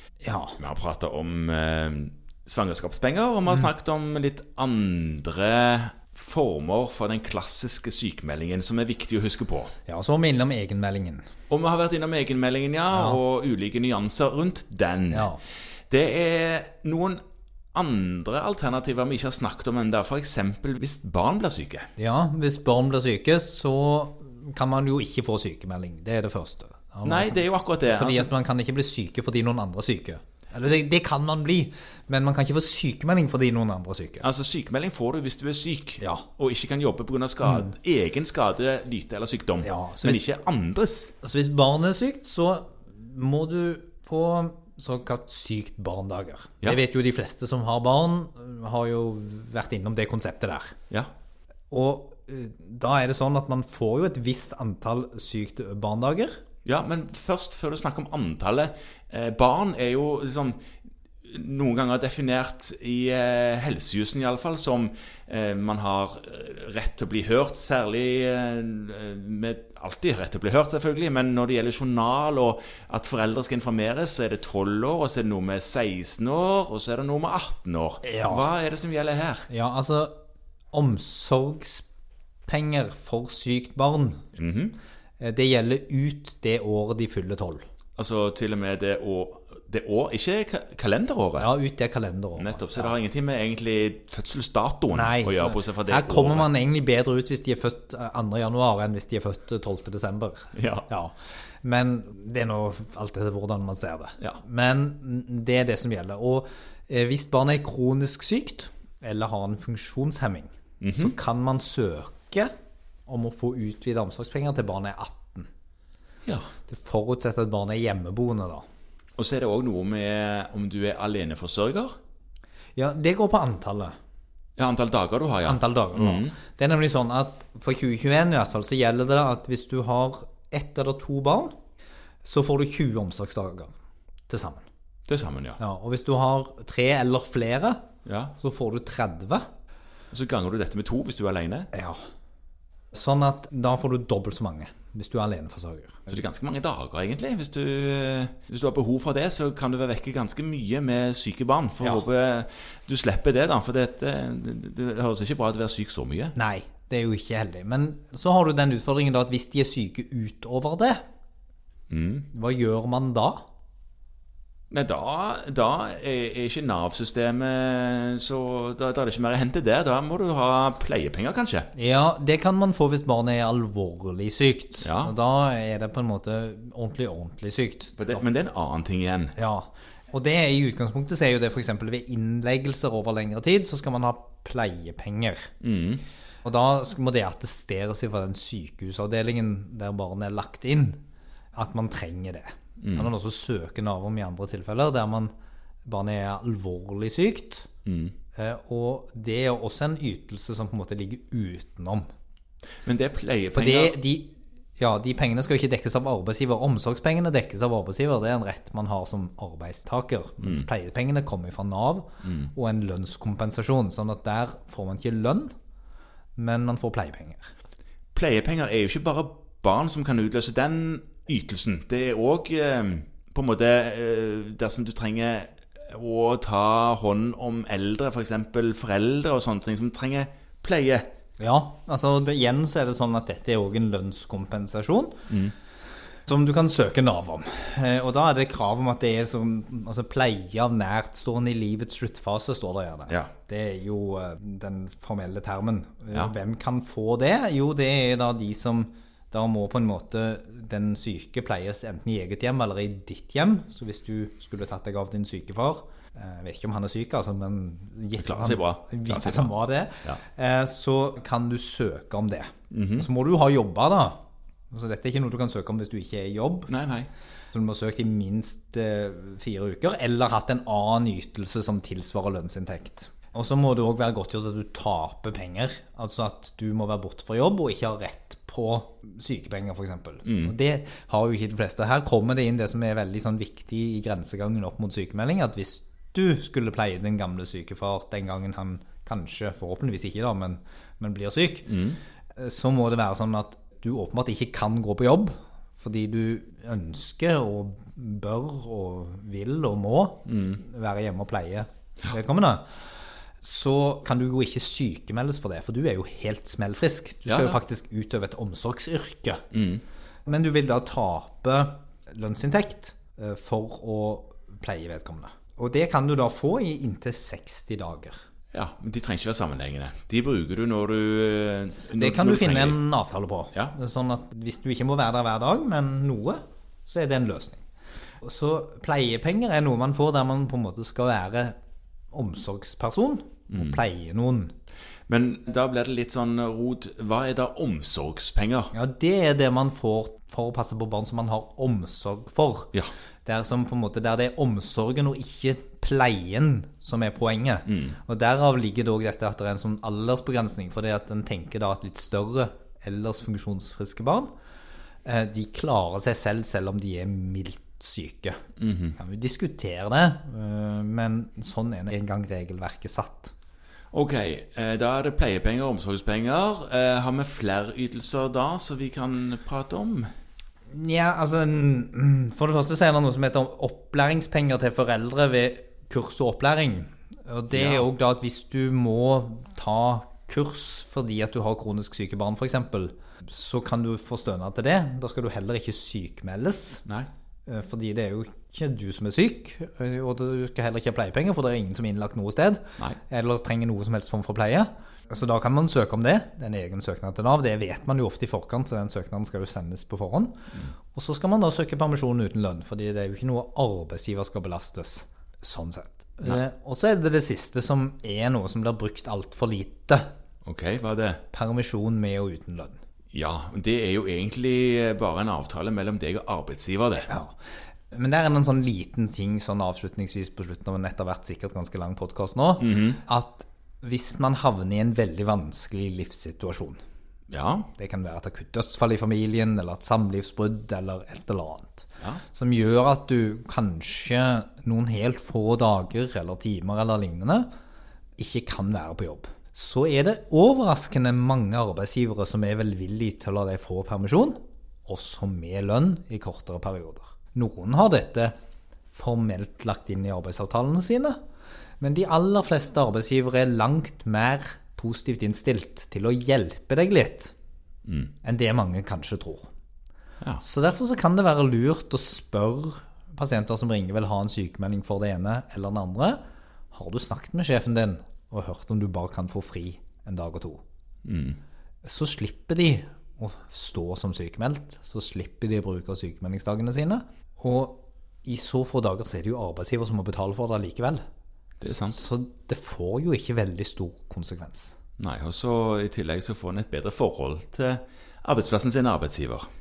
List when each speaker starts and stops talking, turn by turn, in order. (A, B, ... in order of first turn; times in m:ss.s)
0:00.2-0:00.6 A
0:00.6-0:09.7 B
0:09.9-0:11.2 A
0:11.5-0:15.3 B
0:15.1-0:15.4 A
0:15.9-0:17.2 B
0:17.7-0:21.9 B
0:22.0-0:34.3 A
0:27.0-0:28.3 B
0:34.2-0:41.1 B
0:36.0-0:36.3 A
0:37.4-0:37.7 A
0:39.6-0:40.2 A
0:41.2-0:50.8 A
0:51.7-0:56.4 A
0:56.6-1:00.6 B
1:01.2-1:19.4 B
1:18.0-1:18.5 A
1:19.5-1:20.1 A
1:20.7-1:21.8 A
1:22.5-1:24.2 A
1:24.3-1:24.8 B
1:25.2-1:27.6 A
1:28.0-1:31.5 B
1:31.4-1:32.9 A
1:32.4-1:36.5 B
1:34.9-1:52.5 A
1:40.5-1:40.8 B
1:50.8-1:51.1 B
1:53.1-1:55.5 A
1:56.7-1:58.6 A
1:59.2-2:01.9 B
2:02.8-2:03.9 A
2:04.6-2:06.3 B
2:05.4-2:11.5 A
2:12.2-2:13.7 A
2:14.3-2:14.6 A
2:15.1-2:15.6 B
2:15.6-2:17.8 A
2:18.0-2:18.3 B
2:18.4-2:19.4 A
2:20.1-2:21.7 B
2:21.7-2:22.0 A
2:22.9-2:26.0 A
2:26.1-2:36.3 B
2:36.3-2:41.0 A
2:41.9-2:42.3 B
2:42.3-2:43.4 A
2:44.7-2:51.7 B
2:51.7-2:58.2 A
2:54.8-2:55.1 B
2:58.0-2:59.3 B
2:59.4-3:05.5 A
3:05.6-3:06.0 B
3:06.4-3:11.0 A
3:11.5-3:15.3 A
3:12.8-3:13.1 B
3:15.8-3:17.7 A
3:17.8-3:18.1 B
3:18.3-3:22.1 A
3:22.8-3:24.0 B
3:23.5-3:35.5 A
3:30.4-3:30.6 B
3:32.2-3:32.5 B
3:36.4-3:37.4 A
3:38.1-3:51.1 B
3:51.4-3:55.2 A
3:55.3-3:55.5 B
3:56.3-4:24.2 A
4:18.2-4:19.5 B
4:22.7-4:23.1 B
4:24.7-4:26.7 A
4:26.7-4:27.1 B
4:27.5-4:51.8 A
4:40.2-4:40.5 B
4:51.7-4:52.0 B
4:52.4-5:02.9 A
5:00.3-5:00.6 B
5:03.4-5:09.4 A
5:07.3-5:07.6 B
5:09.5-5:09.8 B
5:10.2-5:18.2 A
5:18.5-5:22.8 B
5:22.0-5:27.6 A
5:28.2-5:31.5 A
5:32.1-5:34.5 A
5:33.5-5:33.8 B
5:35.1-5:38.7 B
5:38.7-5:42.7 A
5:43.2-5:54.3 A
5:47.7-5:48.0 B
5:55.0-5:58.4 A
5:58.6-5:59.0 B
5:59.0-6:03.3 A
6:03.9-6:10.1 B
6:10.7-6:26.8 A
6:17.5-6:17.8 B
6:27.5-6:40.4 A
6:40.9-6:50.1 A
6:50.4-6:51.2 B
6:51.3-6:52.8 A
6:53.1-6:57.1 B
6:57.1-6:57.4 A
6:57.9-7:06.8 A
7:02.6-7:03.0 B
7:07.3-7:07.7 B
7:07.8-7:17.5 A
7:18.2-7:28.3 A
7:28.9-7:31.2 A
7:31.8-7:37.3 A
7:37.9-7:38.1 B
7:38.2-7:39.5 A
7:40.4-7:46.2 A
7:46.7-7:50.6 A
7:51.0-7:51.4 B
7:51.8-8:01.0 A
8:01.6-8:02.0 B
8:01.6-8:04.8 A
8:05.0-8:09.4 B